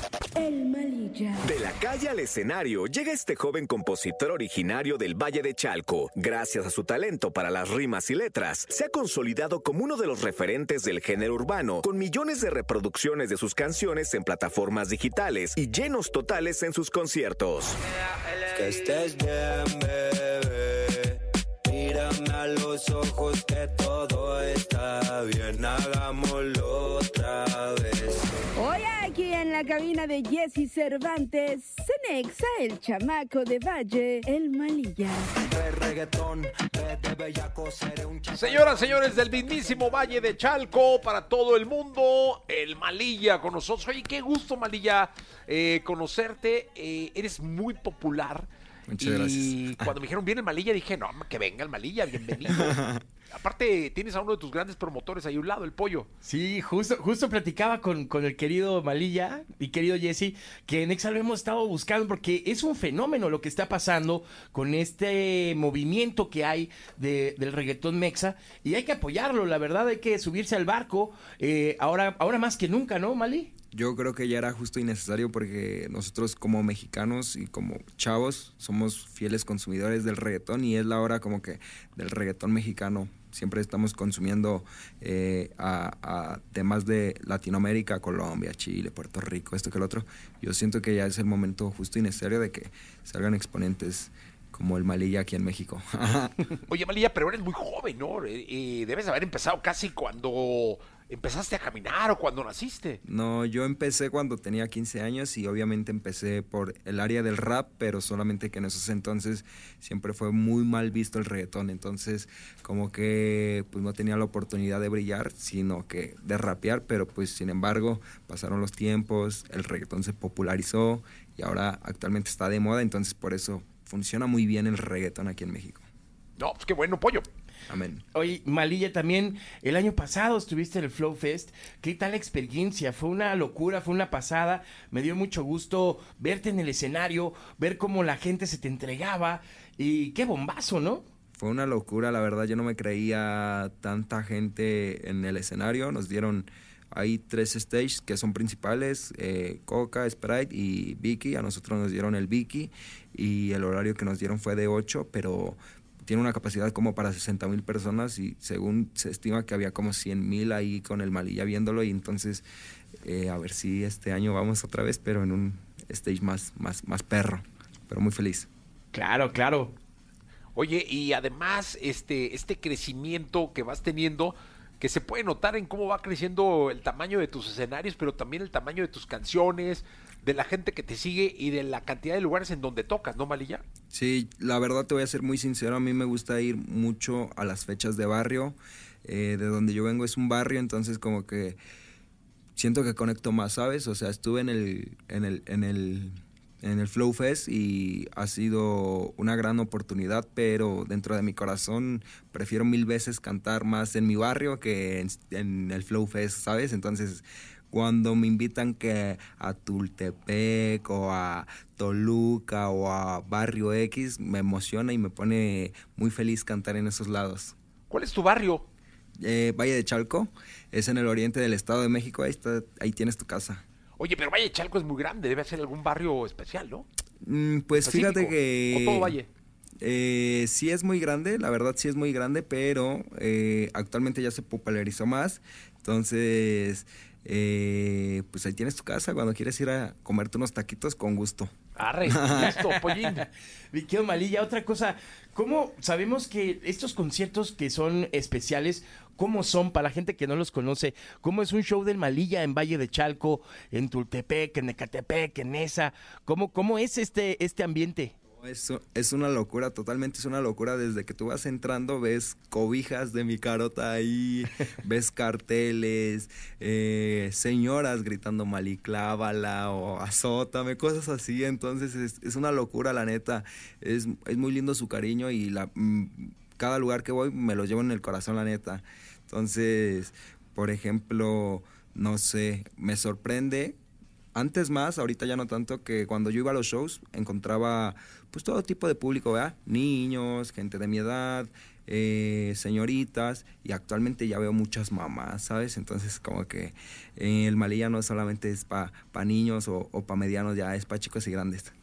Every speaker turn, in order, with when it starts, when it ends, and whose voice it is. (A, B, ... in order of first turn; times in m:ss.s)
0:00.4-0:01.6 A
0:01.4-0:17.8 B
0:18.5-0:21.1 C
0:18.6-0:20.0 D
0:21.7-0:28.0 C
0:24.6-0:25.0 D
0:25.5-0:25.8 D
0:28.6-0:35.3 A
0:35.4-0:39.9 C
0:38.3-0:56.1 E
0:48.9-0:49.9 D
0:52.5-0:53.0 D
0:56.2-1:13.5 F
1:13.7-1:36.4 D
1:36.7-1:43.0 E
1:43.0-2:05.8 D
2:06.4-2:07.2 E
2:07.7-2:08.0 D
2:08.1-2:21.0 F
2:21.3-2:42.4 D
2:43.0-2:48.5 D
2:48.9-2:49.7 F
2:50.5-3:03.6 E
3:03.9-3:11.6 D
3:12.6-3:37.5 D
3:37.9-3:38.7 E
3:39.2-3:43.6 D
3:44.0-3:46.8 E
3:47.2-3:49.2 D
3:47.7-3:49.3 E
3:49.8-4:01.5 D
4:01.8-4:03.2 E
4:02.0-4:02.6 D
4:03.0-4:18.1 F
4:18.4-4:43.7 D
4:44.3-5:01.7 D